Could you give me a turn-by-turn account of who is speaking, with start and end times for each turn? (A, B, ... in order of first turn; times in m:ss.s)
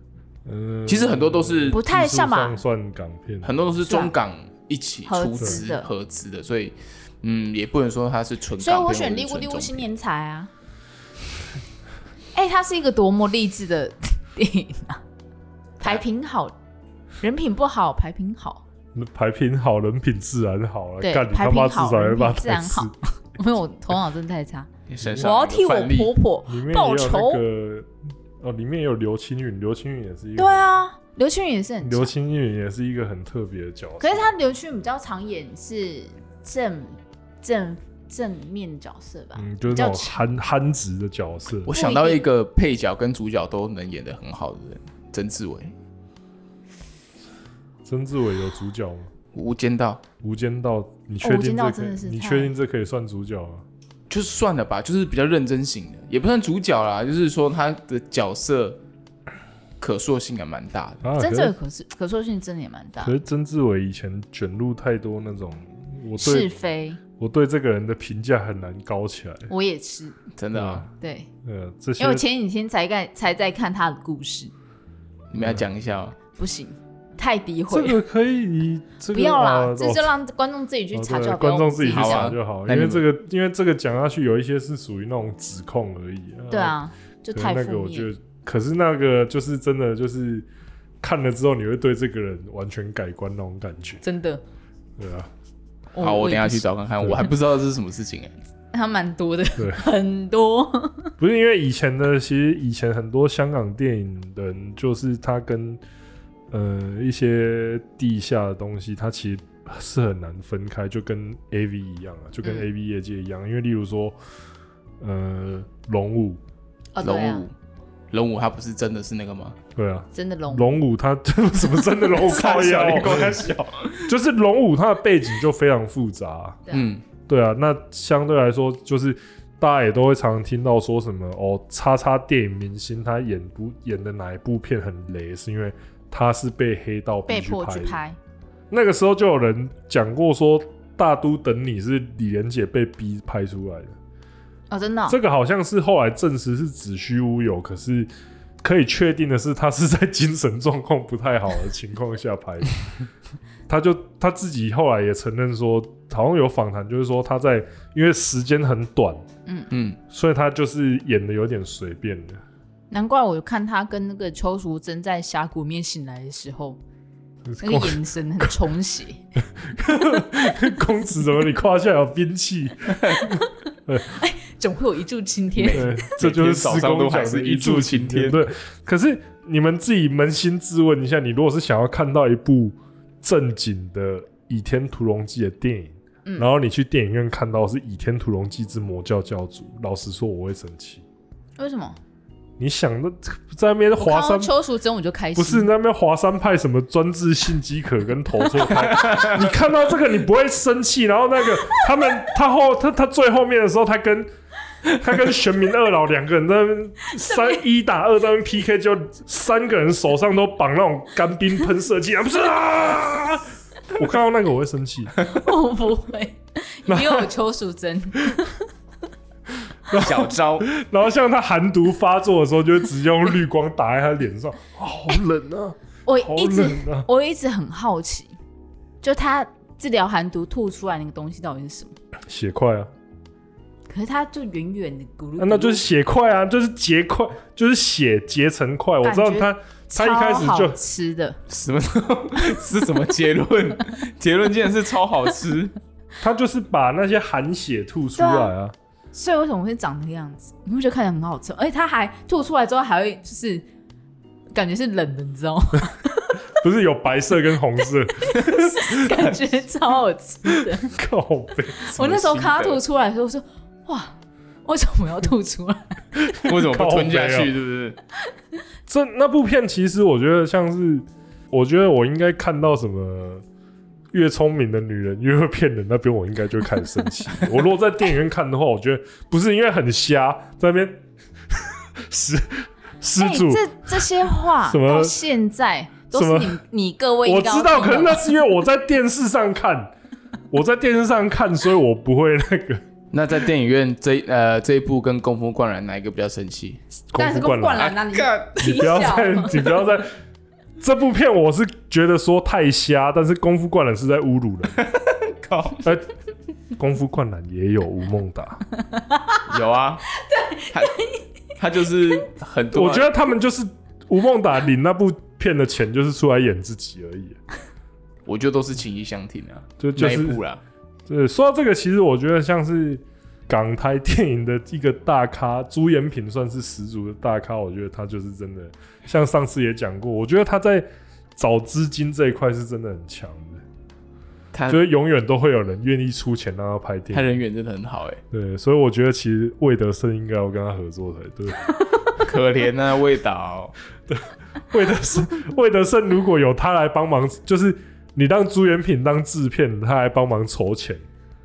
0:00.5-0:03.6 A
0:00.9-0:01.8 B
0:01.7-0:02.6 C
0:03.4-0:09.9 B
0:03.8-0:04.1 C
0:05.1-0:05.9 C
0:08.6-0:10.5 C
0:12.3-0:15.0 C
0:15.8-0:16.6 C
0:17.2-0:18.6 C
0:19.0-0:22.9 A
0:21.0-0:24.7 C
0:24.9-0:26.1 B
0:25.0-0:25.3 A
0:25.2-0:27.4 C
0:26.5-0:27.9 A
0:28.4-0:30.6 A
0:30.4-0:32.1 C
0:31.8-0:34.3 A
0:34.0-0:40.2 C
0:39.4-0:41.7 A
0:41.7-0:45.8 B
0:41.7-0:42.2 C
0:47.9-0:49.1 A
0:49.3-0:50.0 B
0:50.2-0:53.6 A
0:51.2-0:52.5 C
0:54.1-0:58.8 B
0:59.8-1:01.0 B
1:01.0-1:01.5 A
1:01.2-1:03.2 C
1:03.0-1:06.5 A
1:06.2-1:07.0 C
1:07.2-1:09.5 A
1:09.5-1:10.2 C
1:10.4-1:10.9 B
1:10.5-1:10.9 A
1:11.0-1:11.3 C
1:11.4-1:12.2 A
1:12.0-1:14.5 C
1:15.3-1:16.2 B
1:15.4-1:15.6 A
1:16.3-1:18.0 C
1:17.7-1:20.1 A
1:19.1-1:22.3 C
1:20.9-1:26.8 A
1:21.9-1:23.0 B
1:26.5-1:28.1 C
1:27.3-1:30.5 A
1:31.0-1:34.0 A
1:34.0-1:34.4 C
1:35.0-1:35.3 A
1:35.9-1:36.7 C
1:36.0-1:38.3 B
1:37.0-1:37.3 A
1:38.7-1:41.1 C
1:39.6-1:39.9 A
1:41.2-1:45.8 A
1:46.5-1:54.2 A
1:55.0-1:56.4 A
1:56.9-1:57.5 C
1:57.0-1:57.5 B
1:58.1-1:59.6 B
1:59.8-2:03.5 A
2:00.1-2:00.8 C
2:02.2-2:04.1 B
2:04.1-2:06.6 A
2:06.7-2:07.0 B
2:07.3-2:18.0 A
2:17.3-2:18.2 C
2:18.7-2:24.0 A
2:24.7-2:25.2 C
2:25.1-2:28.1 A
2:28.6-2:32.9 A
2:33.7-2:39.2 A
2:39.7-2:40.0 B
2:40.1-2:42.4 A
2:42.9-2:46.8 C
2:47.5-2:48.6 A
2:47.6-2:49.2 C
2:49.6-2:54.2 A
2:54.1-2:56.0 C
2:55.6-2:58.5 B
2:55.7-3:11.0 A
3:11.6-3:12.0 C
3:12.6-3:14.5 A
3:14.0-3:15.7 C
3:15.4-3:24.3 A
3:19.0-3:19.4 B
3:24.9-3:35.2 A
3:27.3-3:27.6 C
3:35.2-3:38.6 C
3:36.9-3:37.3 A
3:39.9-3:47.1 A
3:39.9-3:40.7 B
3:46.1-3:48.3 C
3:49.0-3:52.0 C
3:52.3-3:52.9 A
3:53.9-3:55.8 C
3:55.4-4:00.8 A
3:59.0-4:01.4 C
4:01.5-4:05.7 B
4:06.2-4:08.7 A
4:08.2-4:08.5 C
4:09.1-4:13.6 C
4:14.5-4:16.4 C
4:16.6-4:19.2 A
4:18.2-4:20.9 C
4:20.5-4:22.3 A
4:21.9-4:26.0 C
4:22.0-4:22.8 B
4:26.2-4:27.5 A
4:26.4-4:28.0 B
4:28.9-4:33.4 A
4:34.1-4:41.0 A
4:41.5-4:45.2 A
4:43.2-4:48.4 C
4:46.1-4:46.6 A
4:47.2-4:49.9 A
4:50.5-4:52.8 A
4:53.1-4:56.8 B
4:57.1-4:58.0 A
4:57.2-4:59.8 C
4:57.8-4:59.0 B
4:58.6-5:00.1 A
5:00.8-5:04.8 A
5:04.8-5:05.8 B
5:05.8-5:06.1 A
5:06.8-5:08.6 A
5:08.9-5:09.4 C
5:09.5-5:10.0 B
5:10.2-5:11.2 C
5:10.7-5:11.0 B
5:11.6-5:13.1 B
5:12.7-5:17.4 A
5:18.3-5:20.6 B
5:19.8-5:20.4 A
5:21.1-5:33.6 A
5:34.5-5:34.8 B
5:34.7-5:37.4 A
5:37.1-5:38.2 B
5:38.3-5:41.8 A
5:42.2-5:43.7 B
5:44.1-5:51.0 A